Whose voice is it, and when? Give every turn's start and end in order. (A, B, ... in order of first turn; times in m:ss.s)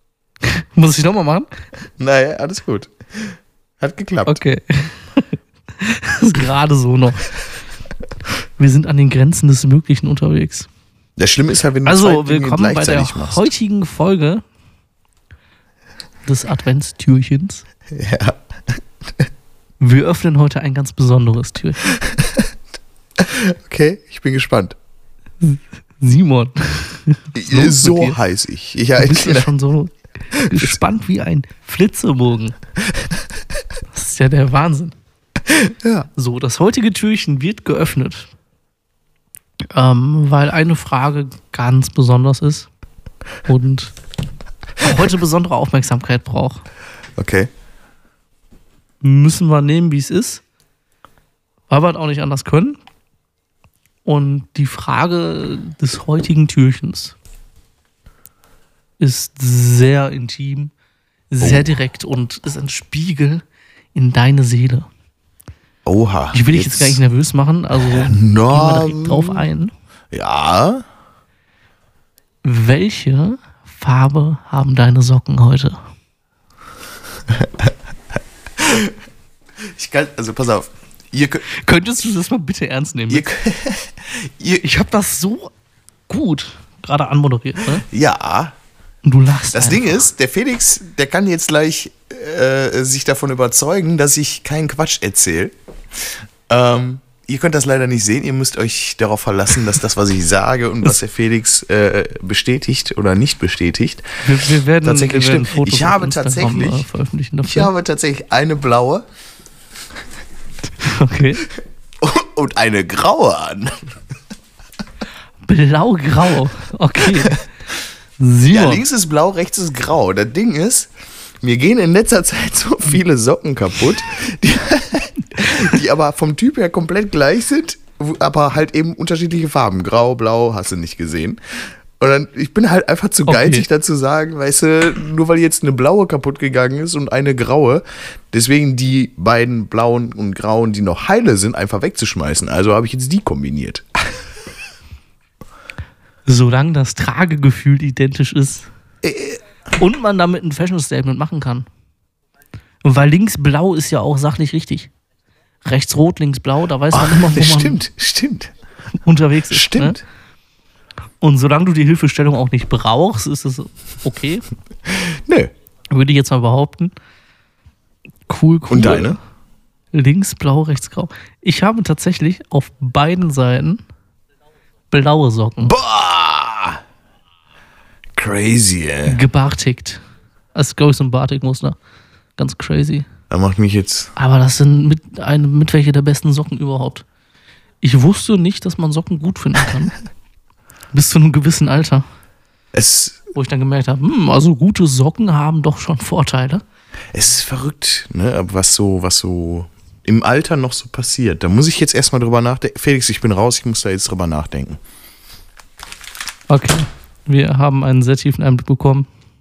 0:00.4-0:01.5 A
0:02.0-0:04.4 B
0:04.2-0:07.4 A
0:08.6-0:10.7 A
0:11.2-0:13.5 B
0:11.8-0:14.4 A
0:16.2-0:17.6 A
0:17.9-0:18.4 B
0:19.8-0:21.8 A
0:22.0-0:22.4 B
0:23.2-0:24.7 B
0:25.4-0:28.2 A
0:27.3-0:29.5 B
0:29.0-0:32.5 A
0:30.3-0:30.7 B
0:33.9-0:34.9 A
0:35.5-0:36.1 B
0:36.2-0:38.3 A
0:39.7-0:42.7 A
0:43.4-0:43.9 A
0:44.8-0:46.6 A
0:47.2-0:47.5 B
0:49.0-0:50.4 A
0:51.7-0:52.8 A
0:54.0-0:57.2 A
0:59.0-1:00.7 A
1:01.3-1:03.4 A
1:01.4-1:01.7 B
1:03.9-1:04.9 A
1:05.8-1:07.0 B
1:06.3-1:09.7 A
1:07.8-1:09.4 B
1:10.1-1:10.8 B
1:12.4-1:15.8 A
1:17.3-1:17.7 B
1:18.6-1:18.9 B
1:19.7-1:21.5 B
1:21.5-1:23.3 A
1:23.1-1:24.6 B
1:24.6-1:25.5 A
1:26.1-1:27.8 A
1:27.8-1:28.5 B
1:29.0-1:30.1 A
1:29.5-1:35.5 B
1:36.5-1:46.8 B
1:44.2-1:47.7 A
1:47.4-1:49.0 B
1:50.8-1:51.4 A
1:52.0-1:53.8 B
1:55.4-1:57.4 A
1:58.2-1:58.8 A
1:58.5-2:00.9 B
2:01.4-2:11.4 B
2:12.0-2:23.8 B
2:13.3-2:13.7 A
2:26.3-2:28.7 A
2:29.0-2:29.4 B
2:29.8-2:31.6 A
2:32.8-2:34.9 A
2:35.6-2:37.8 A
2:36.9-2:38.5 B
2:39.0-2:40.0 A
2:39.5-2:40.0 B
2:41.2-2:44.4 A
2:45.0-2:45.5 B
2:45.9-2:46.9 A
2:48.3-2:49.2 A
2:48.7-2:49.2 B
2:49.9-2:53.8 A
2:54.9-2:55.7 A
2:55.6-2:56.8 B
2:58.2-2:59.2 B
2:59.0-3:00.0 A
3:00.5-3:01.8 A
3:02.4-3:03.0 A
3:03.3-3:04.1 B
3:04.2-3:07.0 A
3:07.8-3:09.9 A
3:10.9-3:12.0 A
3:12.7-3:13.2 B
3:13.3-3:16.6 A
3:17.1-3:24.8 B
3:26.5-3:29.1 A